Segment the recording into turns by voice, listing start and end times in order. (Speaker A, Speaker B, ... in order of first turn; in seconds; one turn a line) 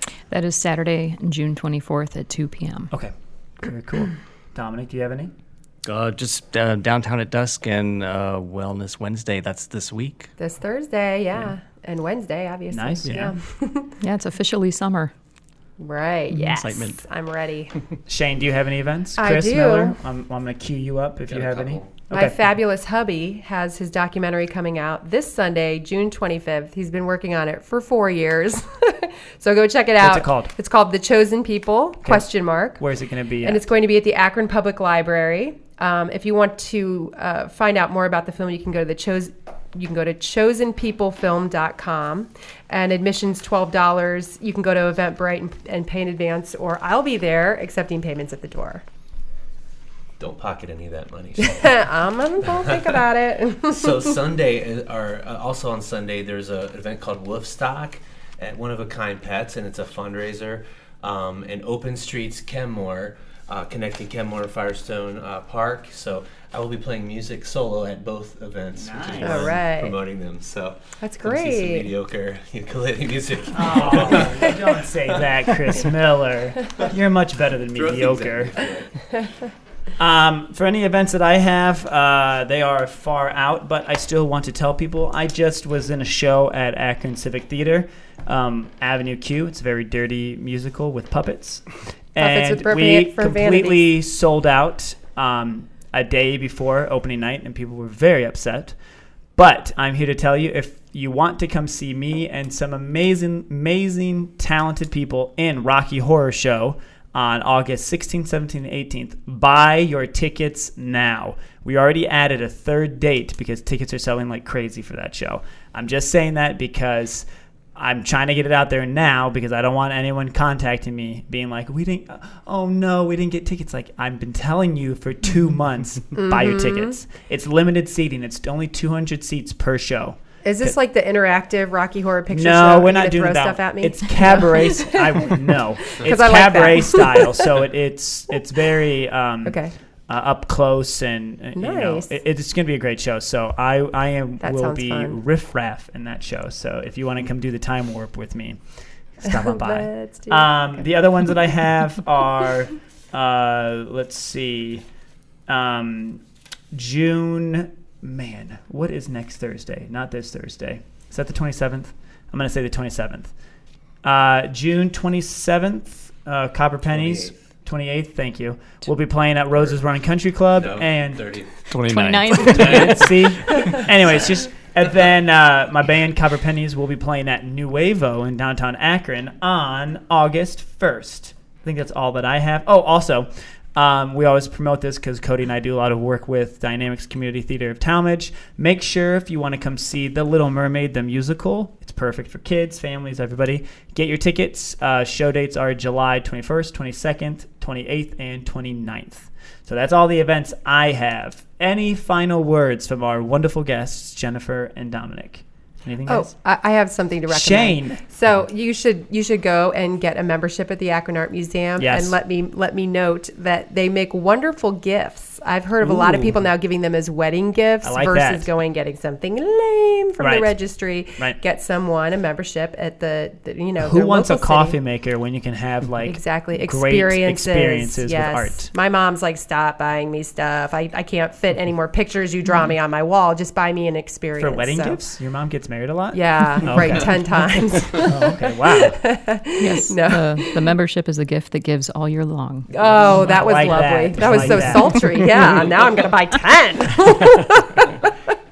Speaker A: 0.3-2.9
Speaker B: 2.9-5.3
Speaker C: 5.8-10.3
Speaker D: 10.4-13.9
Speaker B: 12.7-13.3
Speaker A: 14.0-15.1
Speaker D: 15.8-17.7
Speaker C: 16.5-17.0
Speaker B: 18.1-22.4
Speaker D: 19.2-19.9
Speaker E: 21.3-22.0
Speaker D: 22.1-32.8
Speaker B: 30.0-30.5
Speaker B: 32.0-33.6
Speaker D: 33.4-48.8
Speaker E: 50.2-51.8
Speaker D: 51.4-54.1
Speaker E: 53.6-75.2
Speaker B: 68.8-69.5
Speaker D: 69.2-70.0
Speaker D: 71.0-71.9
Speaker B: 73.5-78.6
Speaker E: 77.7-78.9
Speaker B: 80.0-98.7
Speaker D: 92.2-93.9
Speaker B: 99.3-130.7
Speaker D: 126.1-127.0
Speaker D: 130.4-137.6
Speaker B: 132.3-148.6
Speaker D: 139.4-139.7
Speaker D: 141.6-142.1
Speaker D: 144.4-145.2
Speaker B: 149.2-154.8
Speaker D: 149.2-150.8
Speaker B: 155.5-156.2
Speaker B: 156.7-163.3
Speaker B: 164.0-171.3
Speaker E: 166.9-167.4
Speaker E: 170.5-171.6
Speaker C: 171.6-173.5
Speaker A: 171.9-173.1
Speaker E: 172.4-172.9
Speaker B: 172.7-206.3
Speaker D: 206.1-224.8
Speaker B: 207.3-208.0
Speaker B: 211.8-212.2
Speaker B: 215.8-216.4
Speaker B: 217.8-218.5
Speaker B: 220.2-220.5
Speaker B: 223.8-228.7
Speaker D: 226.0-235.0
Speaker B: 234.4-239.0
Speaker D: 236.1-240.7
Speaker A: 239.6-244.9
Speaker D: 242.7-248.1
Speaker B: 243.0-245.3